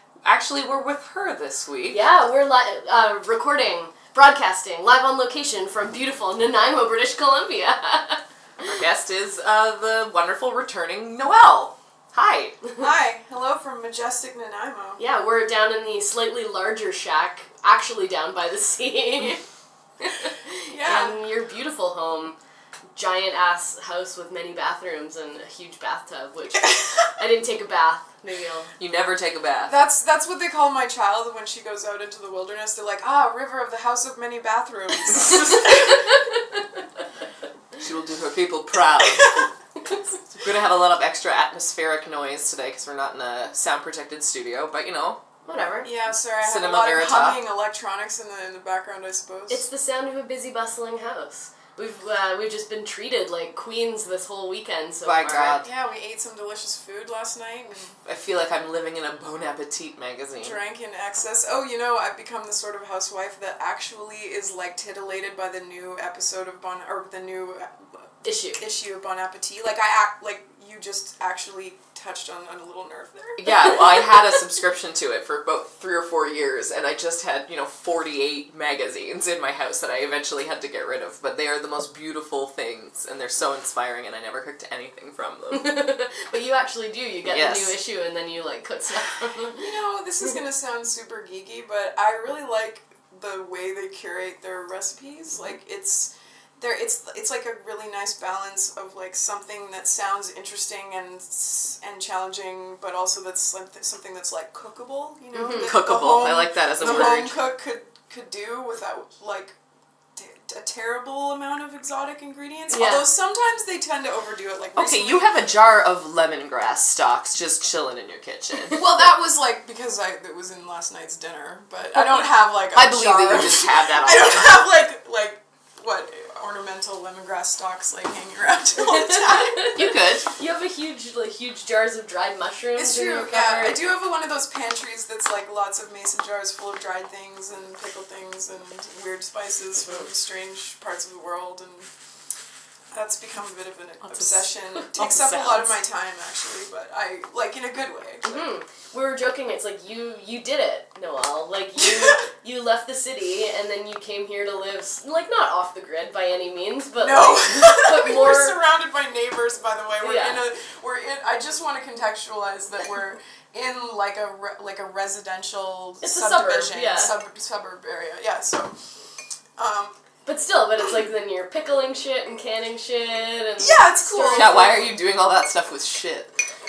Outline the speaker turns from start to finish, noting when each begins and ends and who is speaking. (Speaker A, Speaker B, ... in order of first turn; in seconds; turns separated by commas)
Speaker A: 0.2-2.0, Speaker B: 1.9-8.2, Speaker A: 8.6-12.6, Speaker C: 12.8-15.0, Speaker B: 15.0-19.4, Speaker B: 20.0-22.4, Speaker C: 20.7-21.2, Speaker B: 22.9-28.7, Speaker A: 28.8-29.8, Speaker C: 29.7-36.0, Speaker A: 37.8-39.5, Speaker A: 40.3-45.2, Speaker B: 45.5-45.9, Speaker C: 45.8-49.6, Speaker A: 46.4-47.4, Speaker B: 49.5-55.6, Speaker A: 55.0-55.7, Speaker C: 55.6-58.0, Speaker A: 58.1-60.6, Speaker C: 60.4-67.8, Speaker B: 68.2-68.6, Speaker C: 68.6-73.5, Speaker A: 73.4-85.8, Speaker B: 85.5-89.6, Speaker A: 87.3-87.7, Speaker C: 89.5-109.6, Speaker B: 105.3-105.7, Speaker A: 105.6-107.4, Speaker C: 110.2-115.3, Speaker B: 112.7-113.1, Speaker A: 114.8-118.8, Speaker C: 118.7-129.7, Speaker A: 122.7-124.7, Speaker B: 128.9-133.8, Speaker A: 129.7-130.3, Speaker C: 132.8-141.9, Speaker C: 142.9-148.4, Speaker B: 144.7-145.7, Speaker B: 148.2-158.6, Speaker C: 151.8-152.2, Speaker C: 157.0-168.8, Speaker B: 160.0-160.4, Speaker B: 166.0-167.2, Speaker C: 169.6-170.0, Speaker B: 170.3-174.8, Speaker C: 173.6-174.9, Speaker A: 174.3-176.3